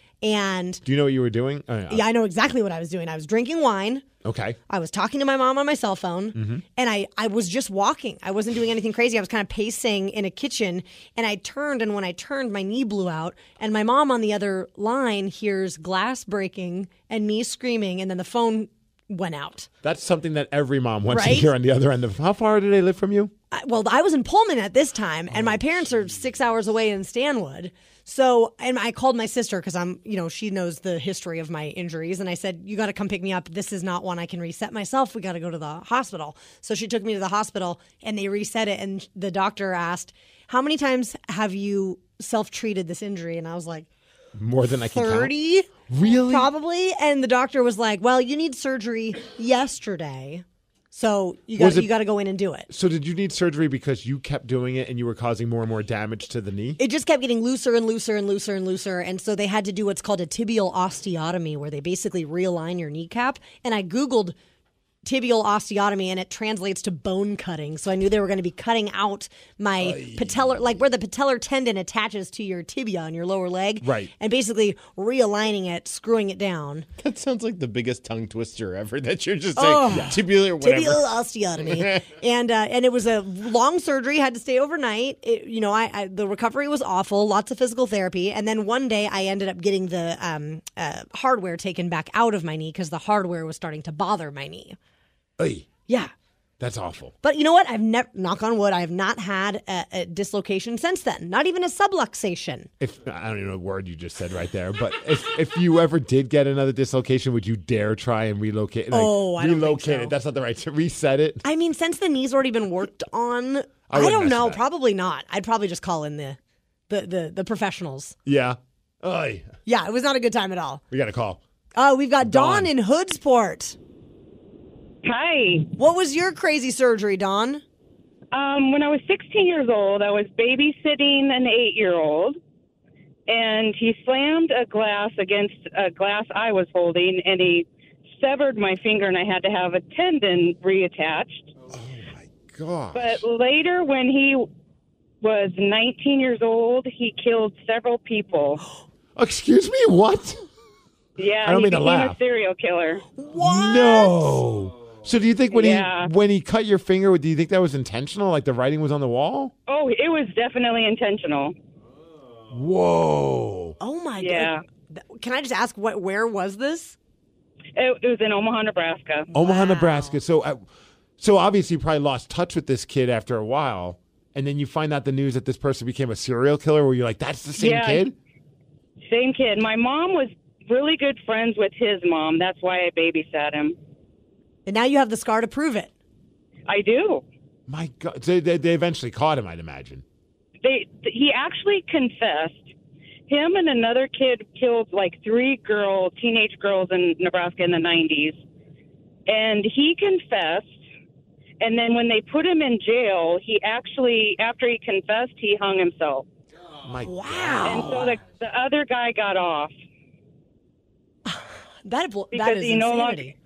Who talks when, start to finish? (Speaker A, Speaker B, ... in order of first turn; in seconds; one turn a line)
Speaker A: 0.2-0.8
Speaker B: 0.8-2.0
Speaker A: 1.9-4.1
Speaker B: 4.2-4.6
Speaker A: 4.7-19.7
Speaker B: 6.3-6.6
Speaker B: 19.8-23.3
Speaker A: 21.1-21.5
Speaker A: 23.5-43.9
Speaker B: 25.3-25.8
Speaker B: 44.4-45.3
Speaker A: 44.9-52.7
Speaker B: 45.9-46.5
Speaker B: 51.6-51.9
Speaker B: 52.7-56.8
Speaker A: 56.8-64.4
Speaker A: 65.0-76.9
Speaker B: 69.8-70.7
Speaker B: 73.8-74.1
Speaker C: 77.0-81.1
Speaker A: 79.6-94.8
Speaker B: 79.9-80.2
Speaker C: 81.7-82.1
Speaker B: 95.4-95.7
Speaker B: 96.6-97.1
Speaker A: 97.2-102.7
Speaker B: 102.8-111.4
Speaker A: 108.9-110.1
Speaker A: 111.4-116.4
Speaker B: 113.9-114.6
Speaker A: 116.9-118.2
Speaker B: 118.2-119.5
Speaker A: 119.7-120.8
Speaker B: 120.9-121.4
Speaker A: 121.8-123.8
Speaker B: 122.2-122.7
Speaker D: 125.0-125.7
Speaker A: 125.8-127.6
Speaker D: 128.3-132.4
Speaker D: 133.3-141.5
Speaker B: 141.7-143.2
Speaker D: 142.9-144.5
Speaker D: 145.2-148.6
Speaker B: 149.2-150.4
Speaker D: 151.2-153.1
Speaker B: 151.4-152.2
Speaker A: 153.2-154.4
Speaker B: 153.3-159.5
Speaker D: 155.5-156.1
Speaker D: 159.7-161.6
Speaker B: 162.5-163.8
Speaker A: 163.8-167.0
Speaker D: 164.2-164.6
Speaker D: 167.8-169.3
Speaker B: 169.3-170.7
Speaker A: 169.3-170.2
Speaker B: 171.2-178.2
Speaker D: 177.6-178.1
Speaker D: 179.1-183.8
Speaker A: 184.7-185.9
Speaker D: 186.7-187.2
Speaker B: 187.7-190.0
Speaker D: 190.6-192.7
Speaker D: 193.3-198.4
Speaker D: 199.3-200.8
Speaker D: 201.6-206.3
Speaker B: 206.8-208.2
Speaker A: 207.0-208.1
Speaker D: 207.6-209.7
Speaker A: 211.3-213.3
Speaker D: 212.3-213.3